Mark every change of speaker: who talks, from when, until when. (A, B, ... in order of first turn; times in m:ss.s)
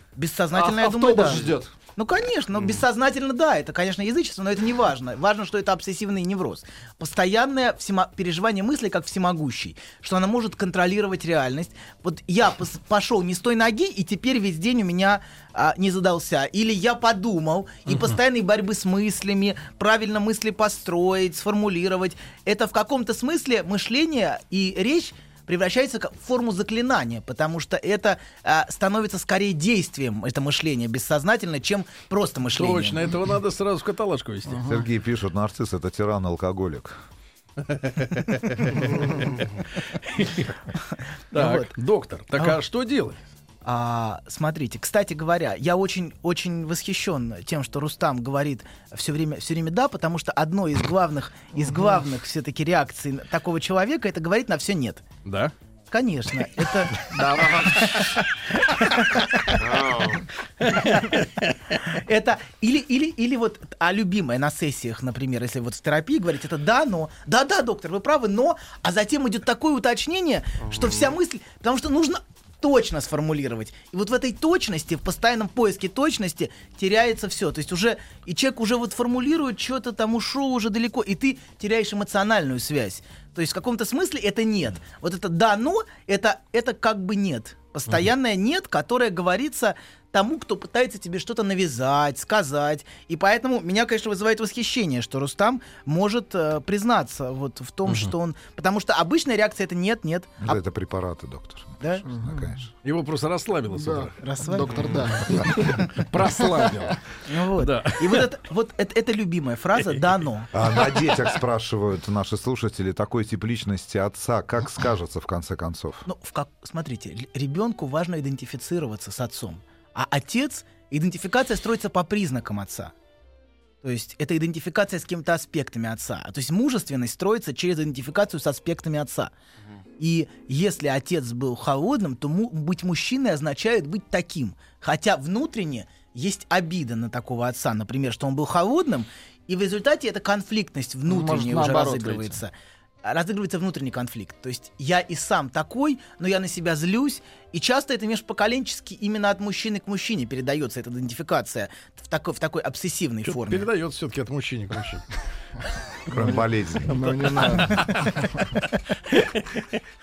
0:00.2-0:33.1 A
0:00.5-0:01.7 B
0:02.5-0:02.8 C
0:17.9-0:18.2 D
0:32.6-0:34.6 D
0:34.5-0:34.8 B
0:34.6-0:37.0 E
0:37.7-0:39.3 D
0:40.0-0:40.6 D
0:41.3-0:43.2 D
0:41.3-0:41.7 A
0:43.6-0:55.0 A
0:55.2-0:55.5 D
0:55.9-0:59.6 A
0:57.1-0:57.6 B
0:57.4-0:57.8 C
0:59.6-1:00.2 C
1:00.7-1:01.2 A
1:00.8-1:01.2 D
1:01.8-1:40.6 A
1:10.6-1:11.2 C
1:37.9-1:38.1 D
1:40.4-1:42.7 E
1:42.1-1:42.5 B
1:42.8-1:44.2 D
1:43.7-1:45.8 B
1:44.2-1:45.0 A
1:44.7-1:45.1 C
1:45.3-1:47.0 D
1:45.6-1:45.9 A
1:46.4-1:46.9 B
1:47.3-1:50.5 A
1:47.6-1:48.3 D
1:49.8-1:50.1 D
1:50.5-1:56.1 E
1:56.1-2:02.9 A
2:03.8-2:09.3 A
2:10.0-2:22.5 A
2:21.1-2:22.4 B
2:23.0-2:33.7 A
2:33.2-2:35.1 D
2:36.1-2:37.0 E
2:36.2-2:38.4 B
2:37.6-2:38.0 D
2:39.3-2:39.6 D